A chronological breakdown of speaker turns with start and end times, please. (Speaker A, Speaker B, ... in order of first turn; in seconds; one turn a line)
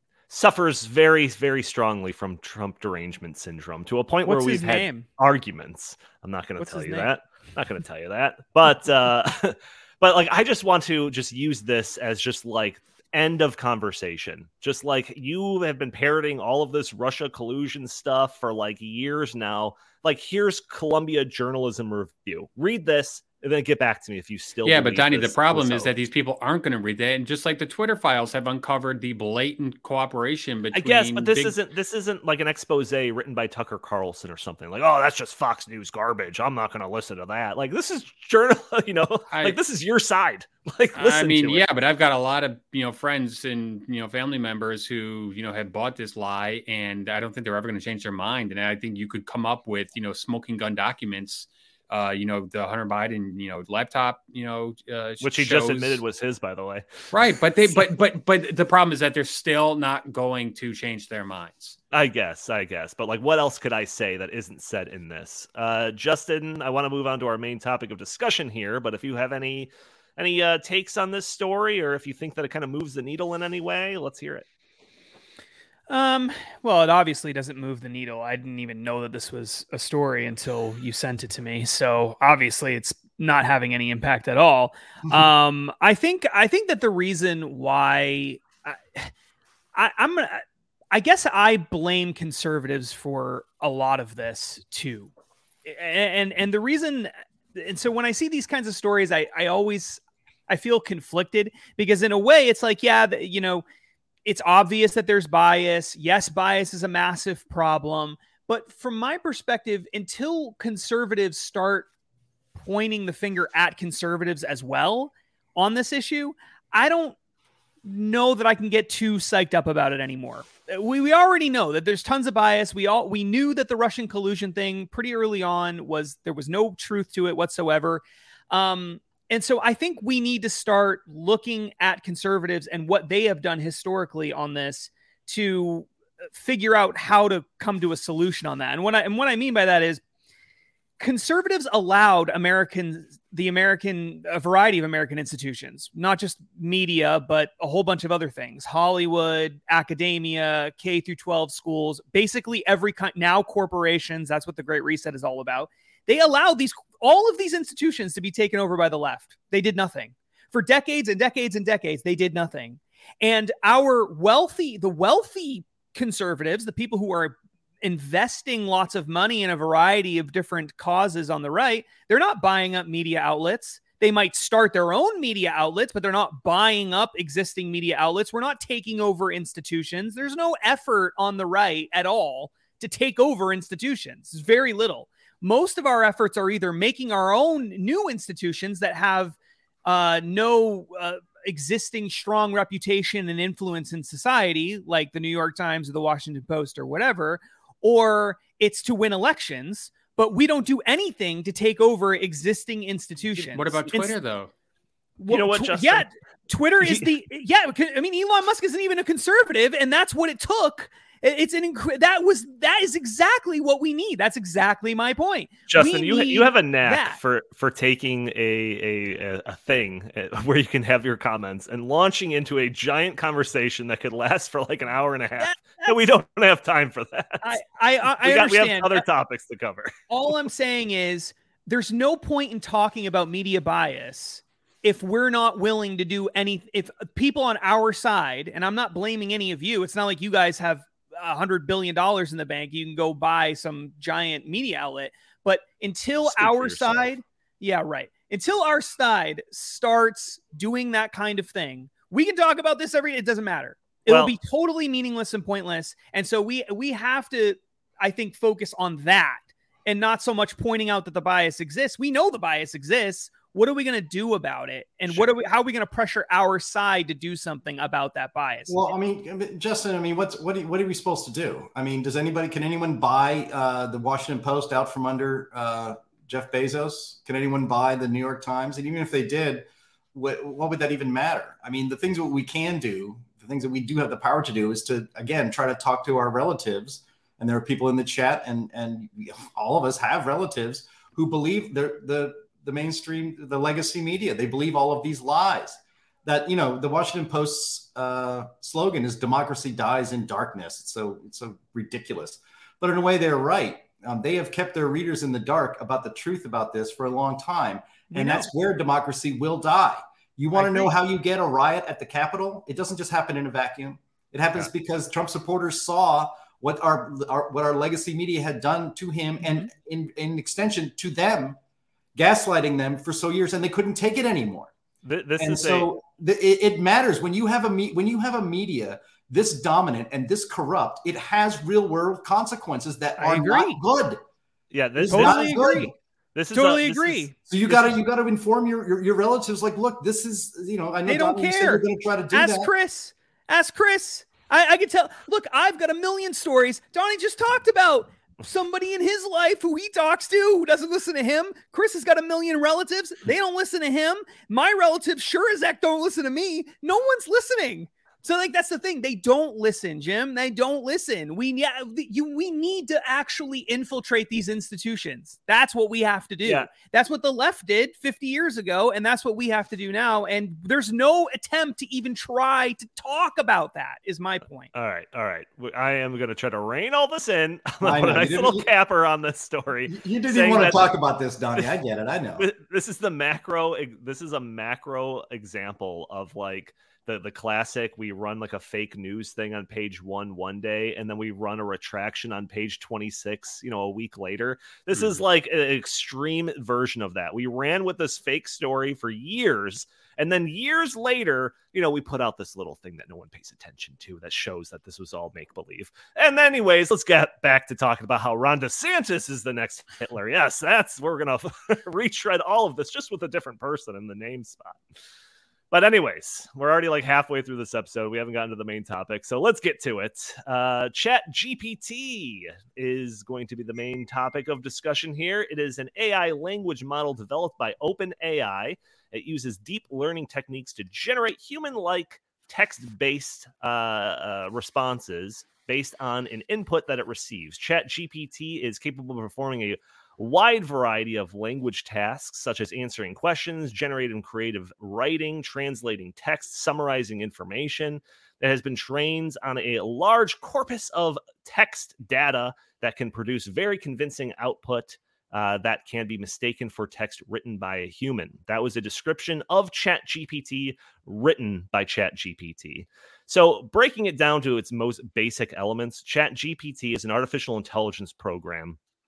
Speaker A: 0.3-25.9
Speaker B: 4.3-5.1
Speaker B: 6.6-7.1
Speaker C: 24.6-31.6
Speaker A: 30.7-41.7
Speaker C: 39.3-39.6
Speaker C: 41.0-56.0
Speaker A: 55.2-57.1
Speaker C: 57.1-61.8
Speaker A: 61.9-74.5
Speaker B: 75.9-89.1
Speaker B: 89.7-95.1
Speaker B: 95.7-103.6
Speaker B: 104.2-111.9
Speaker B: 112.6-117.2
Speaker B: 117.8-140.0
Speaker B: 141.0-204.1
Speaker C: 203.4-204.5
Speaker B: 205.2-217.2
Speaker A: 205.3-206.1
Speaker A: 206.8-207.1
Speaker A: 215.7-227.6
Speaker B: 225.4-226.0
Speaker B: 227.4-229.1
Speaker A: 228.2-229.9
Speaker B: 230.1-268.8
Speaker A: 246.2-247.1
Speaker A: 254.1-254.3
Speaker D: 268.7-321.6
Speaker B: 308.1-308.5
Speaker B: 310.6-310.9
Speaker D: 322.1-324.7
Speaker A: 325.0-325.9
Speaker D: 325.4-334.2
Speaker B: 333.2-333.8
Speaker A: 334.7-335.5
Speaker D: 335.0-335.9
Speaker B: 335.1-335.9
Speaker A: 336.4-337.3
Speaker B: 336.5-337.4
Speaker D: 337.5-342.7
Speaker B: 341.1-374.7
Speaker A: 366.4-366.7
Speaker A: 374.7-380.9
Speaker D: 377.8-378.7
Speaker D: 379.9-382.5
Speaker A: 382.4-414.8
Speaker A: 415.7-468.8